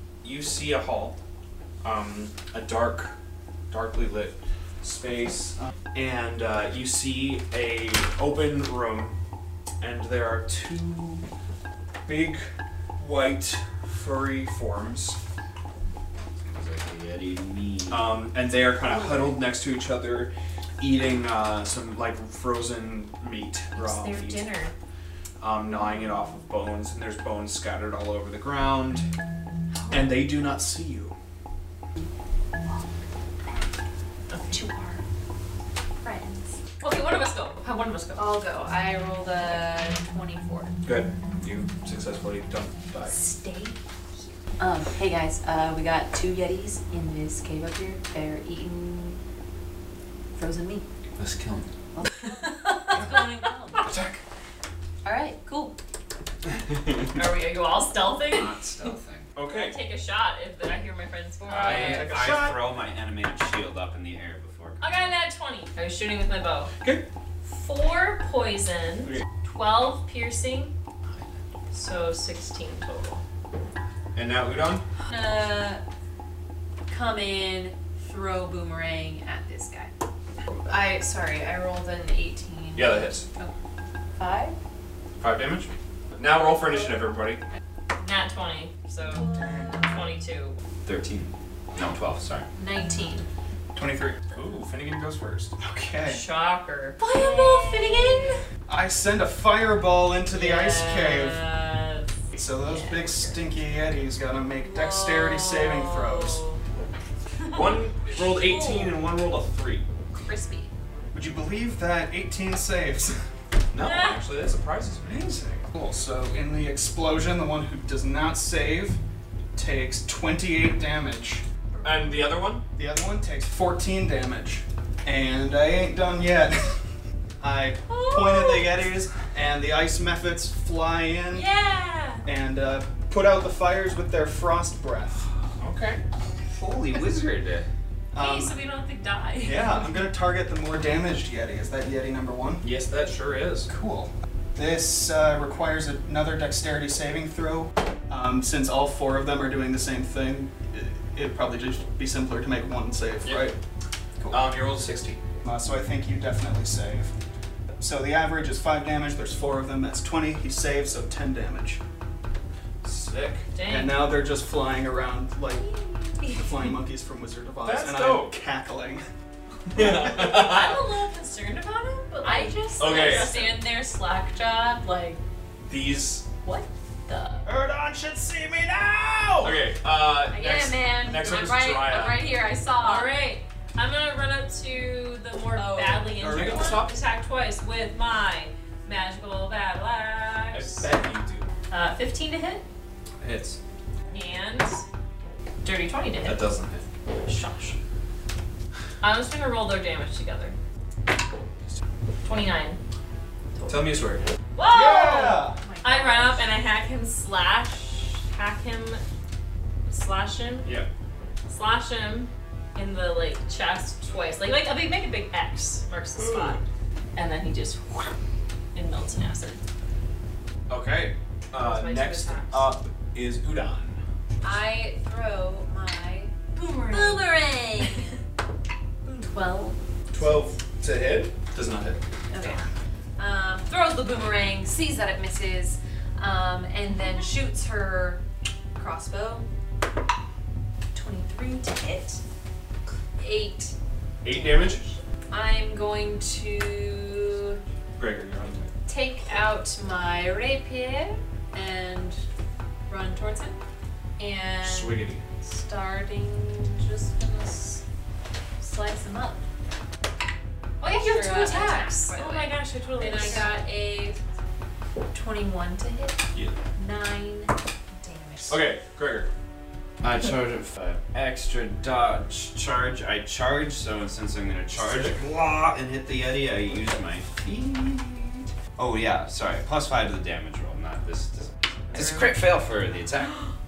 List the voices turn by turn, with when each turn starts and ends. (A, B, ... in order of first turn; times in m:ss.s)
0:00.2-0:01.2 A
0:01.8-0:03.1 A
0:03.7-0:09.1 A
0:09.8-0:11.2 A
0:12.0-0:15.2 A
0:16.5-0:18.2 B
0:17.9-0:24.5 A
0:18.9-0:19.2 C
0:23.7-0:24.7 D
0:25.4-0:29.1 A
0:29.7-0:30.2 C
0:29.9-0:31.2 A
0:34.3-0:34.6 D
0:34.5-0:35.0 C
0:36.0-0:36.6 C
0:36.8-0:38.2 D
0:38.2-0:40.7 C
0:40.8-0:43.1 A
0:43.0-0:43.8 C
0:44.6-0:49.2 C
0:50.3-0:50.8 C
0:51.2-0:51.7 B
0:51.9-0:53.9 C
0:55.0-0:55.7 C
0:57.1-0:58.6 D
0:58.2-0:59.3 B
0:59.3-0:59.8 A
0:59.4-1:02.1 D
1:01.4-1:05.1 B
1:01.7-1:02.6 E
1:04.8-1:06.7 D
1:07.4-1:10.7 D
1:11.7-1:13.2 D
1:14.1-1:14.8 A
1:15.1-1:15.8 C
1:16.9-1:19.9 C
1:20.6-1:23.5 C
1:22.7-1:23.2 A
1:24.2-1:24.6 C
1:25.2-1:27.4 A
1:28.0-1:30.6 D
1:29.1-1:30.0 C
1:29.3-1:29.9 E
1:30.8-1:32.4 B
1:32.6-1:33.3 C
1:33.7-1:34.3 E
1:34.2-1:35.5 A
1:35.6-1:36.2 E
1:36.0-1:38.4 D
1:37.0-1:38.4 C
1:38.7-1:41.4 E
1:40.3-1:43.4 D
1:42.3-1:46.4 E
1:44.7-1:45.5 C
1:45.1-1:46.3 D
1:47.5-1:49.9 A
1:48.4-1:48.9 D
1:48.5-1:48.8 C
1:50.1-1:50.7 C
1:51.1-1:53.2 E
1:53.7-1:55.1 A
1:53.8-1:54.2 D
1:55.0-1:59.0 E
1:59.5-2:01.4 E
2:01.8-2:02.6 A
2:02.7-2:06.8 E
2:07.4-2:11.5 E
2:07.9-2:08.7 D
2:11.3-2:12.2 D
2:12.2-2:15.3 E
2:15.6-2:16.0 A
2:16.6-2:17.7 B
2:18.1-2:18.5 E
2:18.1-2:19.9 D
2:19.4-2:22.7 E
2:22.6-2:23.7 A
2:23.7-2:33.6 E
2:34.2-2:34.5 E
2:34.3-2:35.2 A
2:35.4-2:37.1 E
2:37.8-2:41.8 E
2:42.8-2:43.5 A
2:43.5-2:44.1 D
2:43.6-2:49.0 E
2:46.2-2:46.4 D
2:47.6-2:48.4 A
2:49.7-2:50.8 A
2:49.7-2:53.7 D
2:52.2-2:55.2 C
2:52.8-2:53.3 A
2:55.6-2:56.3 A
2:56.4-2:57.4 C
2:57.4-2:59.6 E
2:59.4-3:02.3 A
3:00.3-3:03.1 C
3:02.8-3:10.9 D
3:05.5-3:06.8 C
3:06.2-3:07.0 A
3:10.5-3:11.5 A
3:11.7-3:12.6 D
3:13.2-3:13.6 A
3:14.1-3:14.8 D
3:15.6-3:16.5 D
3:16.2-3:16.8 A
3:17.2-3:17.8 D
3:19.0-3:20.6 D
3:22.2-3:22.8 D
3:23.6-3:24.2 A
3:24.5-3:29.0 D
3:24.7-3:25.6 E
3:25.6-3:26.4 C
3:29.9-3:30.7 D
3:31.5-3:36.6 D
3:36.2-3:36.6 A
3:37.1-3:38.1 D
3:38.7-3:39.6 D
3:40.7-3:44.0 A
3:41.5-3:42.7 D
3:44.4-3:48.0 C
3:46.5-3:48.0 D
3:49.0-3:50.4 C
3:50.1-3:52.0 A
3:52.3-3:52.6 C
3:53.2-3:58.2 C
3:58.8-3:59.5 C
4:00.9-4:02.2 C
4:03.2-4:03.7 C
4:04.2-4:04.8 A
4:04.3-4:07.6 C
4:08.0-4:08.7 A
4:08.8-4:12.2 C
4:12.9-4:13.6 C
4:14.2-4:17.8 C
4:14.6-4:15.2 A
4:18.6-4:19.4 C
4:20.8-4:23.6 D
4:20.8-4:24.2 C
4:25.1-4:28.6 C
4:26.3-4:26.6 A
4:28.5-4:29.3 A
4:30.0-4:43.4 B
4:34.7-4:35.2 A